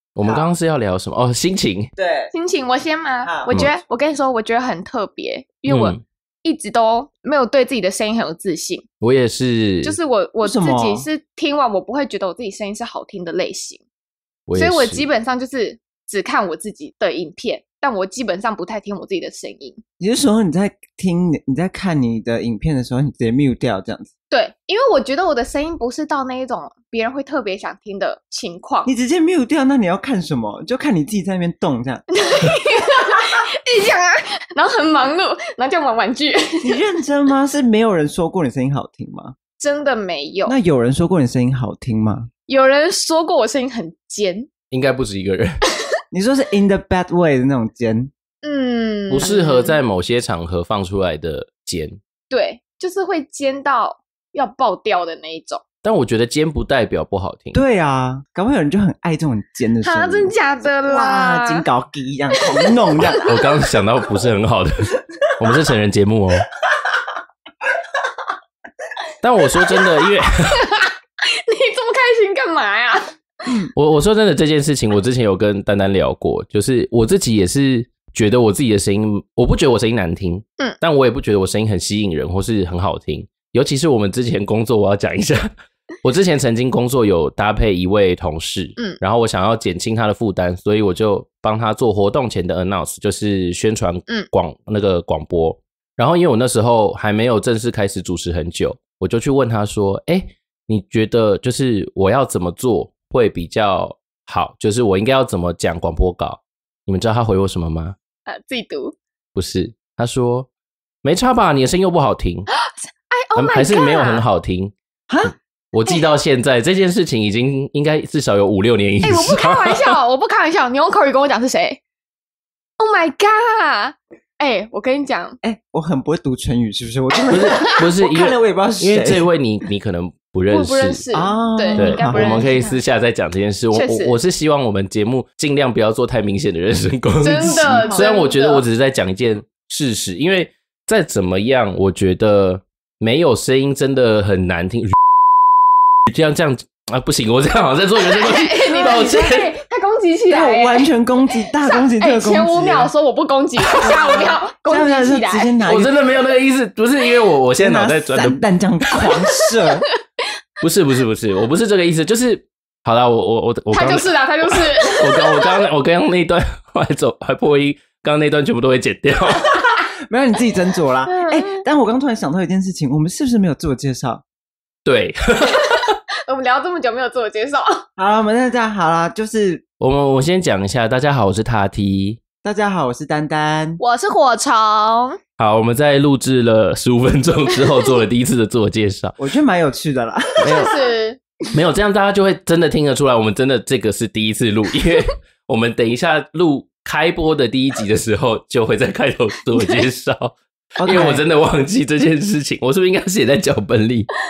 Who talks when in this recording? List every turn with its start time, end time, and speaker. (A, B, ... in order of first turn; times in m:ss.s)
0:00.2-0:01.9 A
0:02.0-0:02.3 B
0:02.3-0:08.9 C
0:03.2-0:03.6 B
0:03.5-0:03.8 A
0:05.7-0:06.0 A
0:09.0-0:10.0 A
0:09.8-0:13.8 C
0:10.4-0:11.1 B
0:14.5-0:15.1 A
0:14.6-0:19.8 C
0:20.0-0:24.1 B
0:24.3-0:28.9 C
0:28.9-0:32.0 B
0:32.1-0:36.8 C
0:36.6-0:39.4 B
0:39.6-0:40.6 C
0:40.5-0:42.3 B
0:42.5-0:44.5 C
0:44.7-0:45.6 A
0:46.1-0:48.1 B
0:48.4-0:49.8 C
0:49.1-0:52.0 A
0:52.3-0:55.6 C
0:55.8-0:57.6 A
0:57.5-1:03.3 B
0:59.8-1:01.6 C
1:02.4-1:03.3 C
1:03.1-1:06.5 A
1:09.2-1:10.7 A
1:10.5-1:13.6 C
1:13.8-1:25.5 A
1:26.0-1:48.0 A
1:48.3-1:49.0 C
1:49.4-1:50.5 A
1:51.0-1:52.5 A
1:52.6-1:54.2 C
1:53.4-1:54.7 A
1:55.1-1:55.3 B
1:55.7-2:00.0 A
1:59.0-2:01.8 C
2:02.8-2:05.4 C
2:05.4-2:09.3 B
2:07.3-2:11.0 A
2:10.5-2:12.8 C
2:11.1-2:12.5 B
2:11.8-2:25.0 A
2:13.7-2:14.2 C
2:17.2-2:18.6 C
2:17.8-2:18.1 B
2:26.1-2:29.6 A
2:28.0-2:30.9 C
2:28.7-2:29.3 B
2:30.3-2:32.9 B
2:31.7-2:35.6 C
2:33.7-2:36.0 B
2:35.7-2:38.4 A
2:37.6-2:39.9 B
2:39.0-2:39.9 C
2:40.6-2:49.6 A
2:43.7-2:45.6 C
2:50.1-2:54.2 B
2:51.1-2:51.6 C
2:54.8-2:55.9 A
2:55.6-2:57.8 C
2:58.0-2:59.6 B
2:59.8-3:02.2 A
3:02.4-3:03.8 B
3:03.8-3:05.2 C
3:05.4-3:09.2 A
3:09.2-3:10.7 B
3:10.4-3:10.7 A
3:10.5-3:11.2 C
3:11.5-3:24.1 A
3:19.6-3:19.9 C
3:20.8-3:21.2 B